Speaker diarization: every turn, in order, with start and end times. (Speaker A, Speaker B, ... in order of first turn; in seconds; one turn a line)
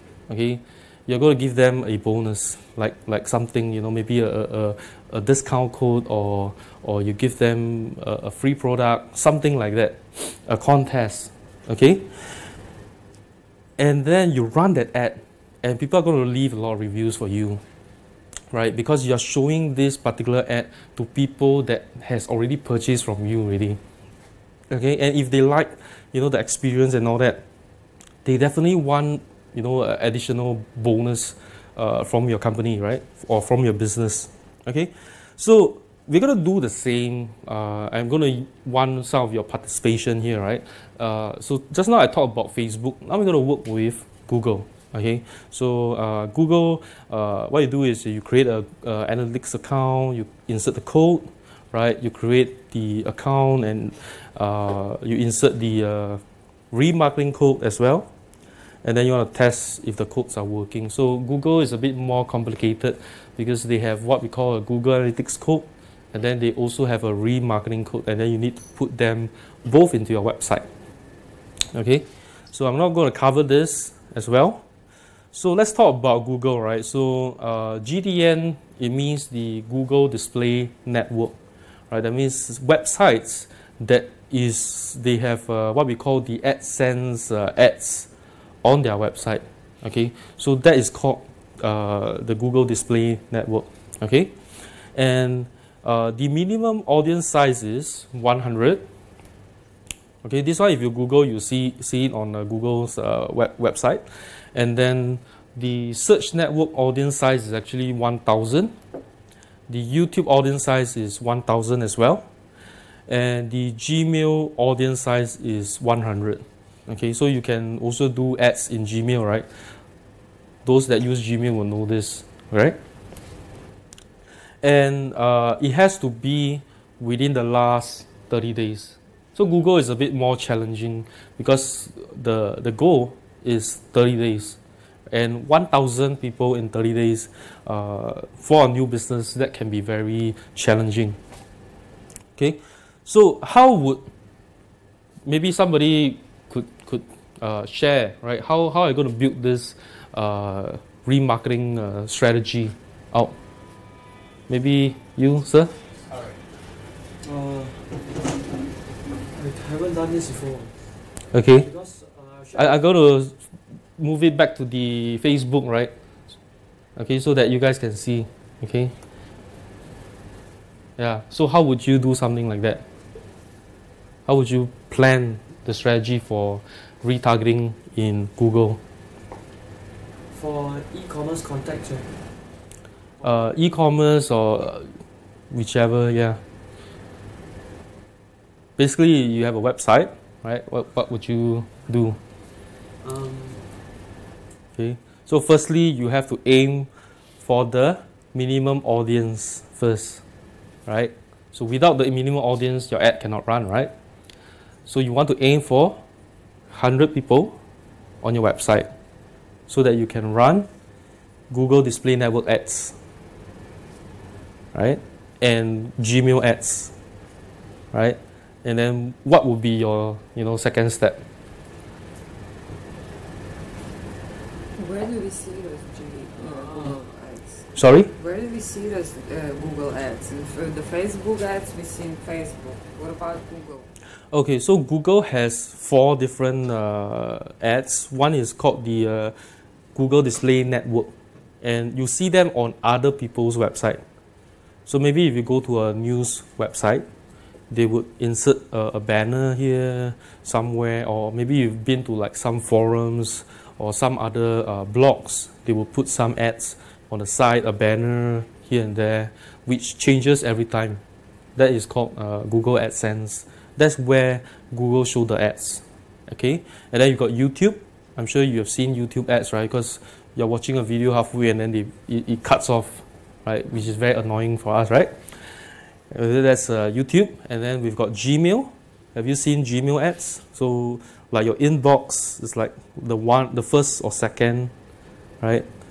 Speaker A: 0.3-12.2
Speaker A: 13.8-17.6
Speaker A: 18.5-23.8
Speaker A: 24.7-27.4
Speaker A: 28.2-58.1
Speaker A: 58.8-70.7
Speaker A: 71.7-74.6
Speaker A: 75.3-81.3
Speaker A: 81.9-88.1
Speaker A: 88.6-94.3
Speaker A: 94.9-98.8
Speaker A: 100.2-108.7
Speaker A: 109.7-112.2
Speaker A: 113.1-119.5
Speaker A: 120.6-122.8
Speaker A: 124.6-134.6
Speaker A: 135.1-141.2
Speaker A: 142.4-144.0
Speaker A: 145.2-153.3
Speaker A: 154.5-155.8
Speaker B: 157.2-158.4
Speaker B: 159.2-160.8
Speaker A: 161.3-161.7
Speaker B: 161.5-162.9
Speaker A: 162.5-163.3
Speaker A: 164.0-165.9
Speaker A: 166.9-168.9
Speaker A: 171.0-172.8
Speaker A: 174.2-178.8
Speaker B: 180.3-182.2
Speaker B: 183.2-183.7
Speaker A: 183.2-185.0
Speaker A: 185.5-186.4
Speaker A: 188.8-192.2
Speaker B: 193.0-193.7
Speaker A: 194.8-196.9
Speaker A: 197.4-200.2
Speaker A: 200.9-203.9
Speaker A: 204.9-206.0
Speaker A: 206.7-207.5
Speaker A: 208.2-208.9
Speaker A: 209.7-210.7
Speaker A: 211.5-212.9
Speaker A: 214.7-216.9
Speaker A: 217.9-221.2
Speaker C: 224.8-233.9
Speaker B: 226.3-227.0
Speaker A: 227.8-228.1
Speaker A: 234.3-239.3
Speaker A: 239.9-244.0
Speaker A: 244.9-247.0
Speaker A: 247.7-261.0
Speaker A: 261.6-275.2
Speaker A: 276.1-284.7
Speaker A: 285.4-285.6